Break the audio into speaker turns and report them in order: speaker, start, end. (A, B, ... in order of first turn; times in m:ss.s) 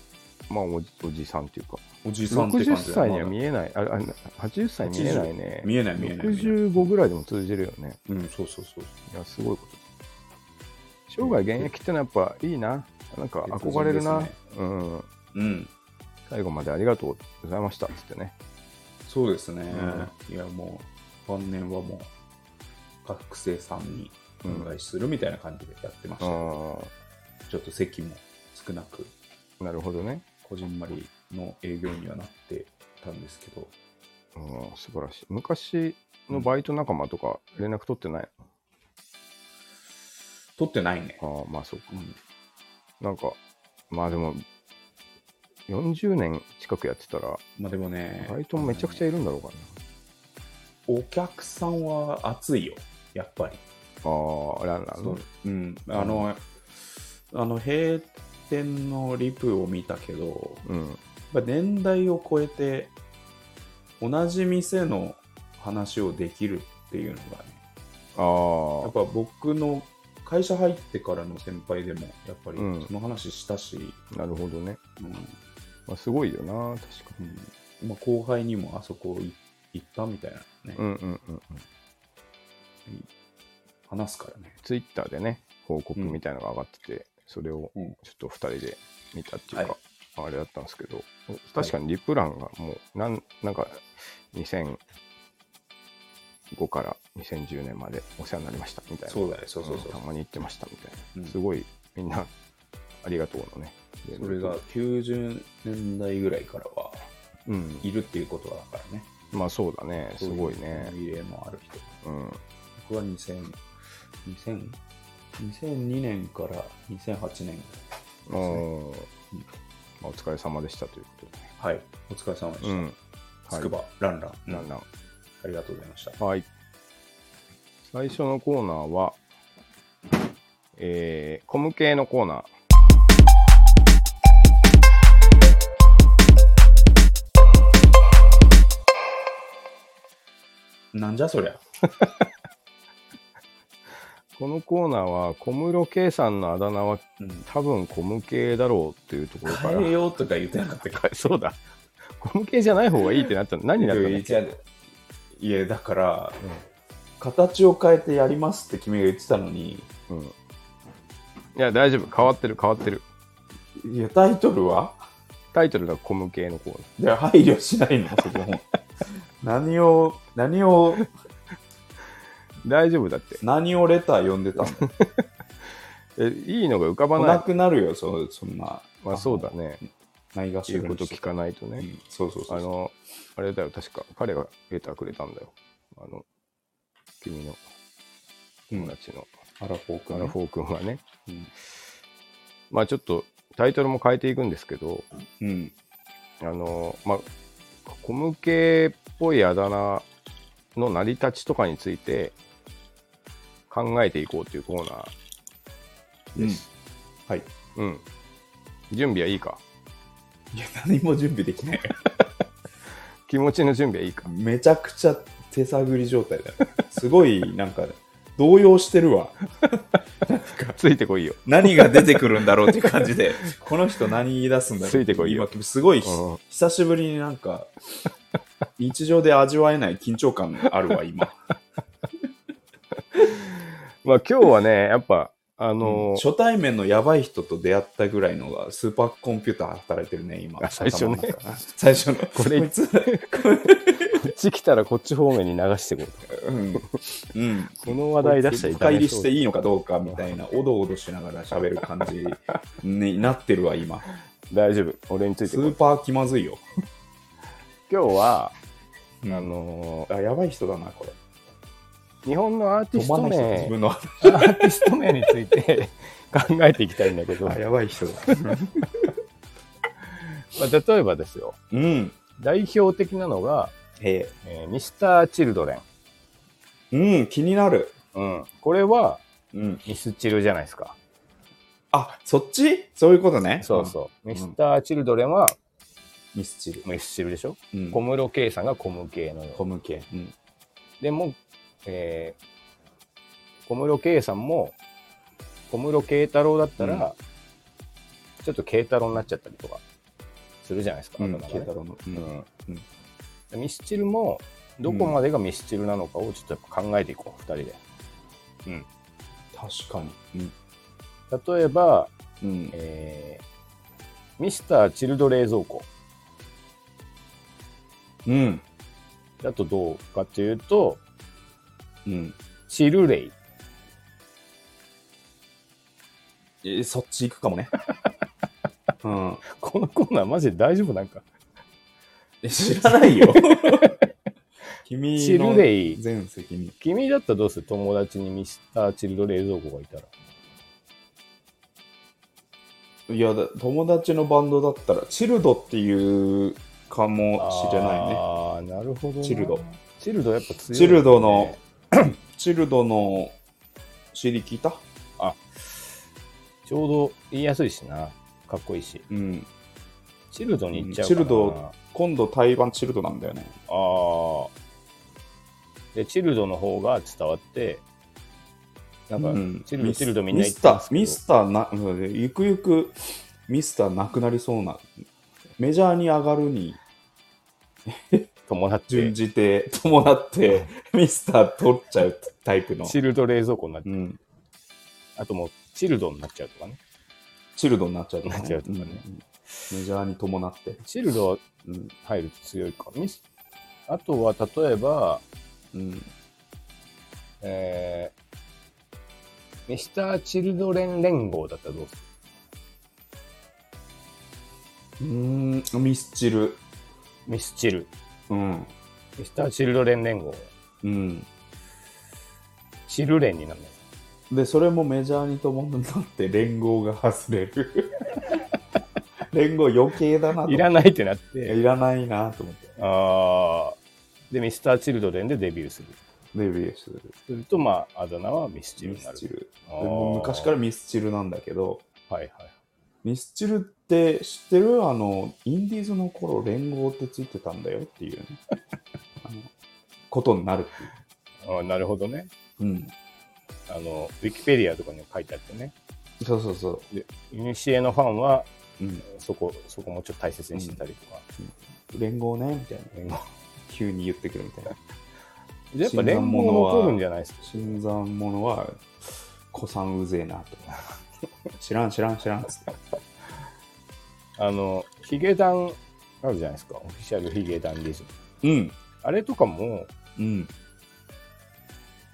0:00.5-0:08.0 A
0:02.0-0:03.3 B
0:04.8-0:06.9 B
0:08.1-0:08.9 B
0:09.1-0:09.8 A
0:11.1-0:15.1 A
0:11.2-0:11.7 B
0:13.4-0:14.4 B
0:15.3-0:15.7 B
0:16.3-0:18.3 A
0:19.0-0:22.1 B
0:19.7-0:20.1 A
0:23.0-0:26.6 B
0:24.4-0:24.7 A
0:26.2-0:26.9 A
0:27.5-0:29.1 B
0:29.6-0:30.2 A
0:30.4-0:33.7 B
0:34.3-0:38.3 A
0:40.6-0:41.2 B
0:41.2-0:41.9 A
0:41.9-0:42.2 B
0:43.0-0:43.4 A
0:43.9-0:44.4 A
0:45.7-0:47.4 A
0:47.6-0:49.0 B
0:48.2-0:49.8 A
0:50.9-0:53.6 B
0:54.0-0:55.2 A
0:54.9-0:56.4 B
0:55.9-0:56.3 A
0:57.3-1:00.6 B
1:00.6-1:01.0 A
1:01.3-1:02.9 B
1:04.0-1:07.6 B
1:08.2-1:08.9 A
1:08.8-1:14.0 B
1:12.6-1:12.9 A
1:14.1-1:14.8 A
1:15.0-1:15.3 B
1:15.9-1:17.2 A
1:17.2-1:20.8 B
1:20.8-1:21.6 A
1:23.9-1:24.6 B
1:24.6-1:34.8 A
1:36.5-1:42.3 A
1:39.1-1:40.0 B
1:43.0-1:44.6 A
1:44.1-1:47.0 B
1:47.4-1:47.8 A
1:47.8-1:49.1 B
1:49.3-1:50.9 A
1:50.2-1:51.9 B
1:52.0-1:52.4 A
1:52.8-1:53.6 B
1:54.2-1:54.8 B
1:55.4-1:57.8 B
1:58.3-1:59.1 A
1:58.4-1:58.6 B
2:00.0-2:01.5 A
2:01.6-2:02.8 B
2:02.6-2:03.7 A
2:03.5-2:04.7 B
2:04.5-2:04.8 A
2:05.4-2:06.2 B
2:06.2-2:06.5 A
2:07.9-2:09.2 A
2:10.8-2:12.5 A
2:20.9-2:21.6 B
2:24.3-2:29.9 A
2:27.2-2:27.4 B
2:29.4-2:31.1 B
2:30.8-2:34.4 A
2:33.8-2:34.6 B
2:35.4-2:36.4 B
2:37.2-2:39.9 B
2:40.1-2:40.3 A
2:41.5-2:43.0 A
2:43.8-2:45.0 B
2:45.5-2:46.9 A
2:47.0-2:48.8 B
2:49.4-2:51.1 B
2:52.6-2:53.4 A
2:53.4-2:54.9 B
2:54.6-2:57.5 A
2:57.2-2:59.5 B
2:59.0-2:59.8 A
3:00.3-3:01.2 B
3:00.7-3:01.9 A
3:01.8-3:02.7 B
3:02.5-3:06.2 A
3:07.2-3:07.6 A
3:08.7-3:09.3 A
3:09.6-3:10.4 B
3:10.1-3:11.0 A
3:12.7-3:15.0 A
3:15.4-3:15.7 B
3:16.4-3:17.2 A
3:17.8-3:20.1 A
3:20.7-3:22.3 A
3:23.7-3:25.1 A
3:26.4-3:26.6 A
3:26.4-3:26.6 B
3:27.7-3:28.0 A
3:28.9-3:29.6 A
3:30.5-3:32.0 B
3:33.3-3:34.3 A
3:34.2-3:39.4 B
3:40.2-3:40.8 B
3:40.8-3:43.1 A
3:41.4-3:47.7 B
3:44.8-3:45.5 A
3:46.0-3:46.4 A
3:48.8-3:51.4 B
3:53.1-3:56.2 A
3:55.8-4:04.2 B
4:00.6-4:01.4 A
4:02.3-4:03.2 A
4:04.1-4:06.3 A
4:06.3-4:14.1 B
4:07.8-4:09.3 A
4:10.1-4:10.3 A
4:11.8-4:12.3 A
4:14.5-4:15.8 A
4:15.4-4:16.6 B
4:17.9-4:18.5 A
4:19.2-4:19.5 B
4:19.3-4:20.1 A
4:20.1-4:21.1 B
4:22.2-4:27.6 A
4:22.9-4:24.8 B
4:27.4-4:29.0 B
4:30.2-4:31.6 A
4:31.7-4:32.2 B
4:32.4-4:33.7 A
4:34.0-4:34.3 B
4:34.4-4:35.8 A
4:36.9-4:37.9 B
4:38.1-4:39.2 A
4:39.5-4:39.8 B
4:39.8-4:41.0 A
4:41.9-4:44.6 B
4:43.6-4:45.6 A
4:46.3-4:46.8 B
4:46.8-4:49.6 A
4:47.7-4:48.0 B
4:49.6-4:50.3 B
4:51.0-4:52.4 A
4:53.6-4:54.7 A
4:55.7-4:57.2 A
4:56.8-4:57.1 B
4:58.4-4:59.8 A
5:00.6-5:02.5 A
5:01.2-5:02.8 B
5:03.5-5:07.8 A
5:04.8-5:05.2 B
5:09.5-5:10.5 B
5:11.3-5:12.1 A
5:12.4-5:12.7 B
5:12.7-5:13.4 A
5:14.4-5:15.9 A
5:18.2-5:18.6 B
5:19.4-5:21.0 A
5:22.0-5:22.4 B
5:22.7-5:23.3 A
5:26.6-5:27.7 B
5:29.0-5:29.4 B
5:29.4-5:31.2 A
5:32.4-5:33.9 B
5:33.0-5:34.0 A
5:34.8-5:36.7 B
5:35.2-5:36.0 A
5:36.8-5:40.1 A
5:43.1-5:48.2 B
5:47.4-5:51.6 A
5:49.2-5:49.6 B
5:50.7-5:51.6 B
5:52.3-5:53.3 B
5:54.1-5:54.8 B
5:56.6-5:59.0 A
5:59.1-5:59.5 B
6:00.3-6:01.7 A
6:00.7-6:03.6 B
6:03.7-6:04.5 A
6:05.9-6:07.8 A
6:09.1-6:11.2 A
6:09.2-6:14.9 B
6:15.6-6:16.8 B
6:17.9-6:18.3 B
6:18.5-6:19.1 A
6:18.9-6:23.0 B
6:22.8-6:23.9 A
6:23.8-6:24.2 B
6:25.2-6:26.8 A
6:27.6-6:30.8 B
6:28.2-6:29.0 A
6:30.8-6:31.4 A
6:32.0-6:33.2 A
6:33.9-6:35.2 A
6:35.7-6:36.1 B
6:37.4-6:38.1 A
6:39.7-6:42.0 A
6:45.0-6:46.6 B
6:47.2-6:47.9 A
6:48.3-6:48.7 B
6:49.2-6:50.5 A
6:50.8-6:51.3 B
6:52.9-6:53.8 A
6:54.3-6:58.0 B
6:59.3-7:00.7 B
7:00.4-7:01.6 A
7:01.4-7:02.7 B
7:02.8-7:03.8 A
7:04.3-7:06.0 A
7:06.3-7:07.2 B
7:07.3-7:10.5 A
7:08.8-7:11.8 B
7:12.1-7:12.5 A
7:13.0-7:18.4 B
7:19.2-7:19.5 B
7:20.1-7:20.9 B
7:21.4-7:22.3 A
7:22.6-7:22.9 B
7:23.7-7:25.7 A
7:26.2-7:26.8 B
7:26.9-7:28.5 A
7:28.8-7:29.0 B
7:29.0-7:31.2 A
7:30.5-7:30.8 B
7:31.4-7:32.9 B
7:32.9-7:33.2 A
7:33.7-7:34.7 B
7:35.7-7:37.8 A
7:35.8-7:40.7 B
7:41.6-7:42.8 B
7:44.4-7:48.1 A
7:48.4-7:48.8 B
7:49.0-7:49.9 A
7:50.2-7:50.5 B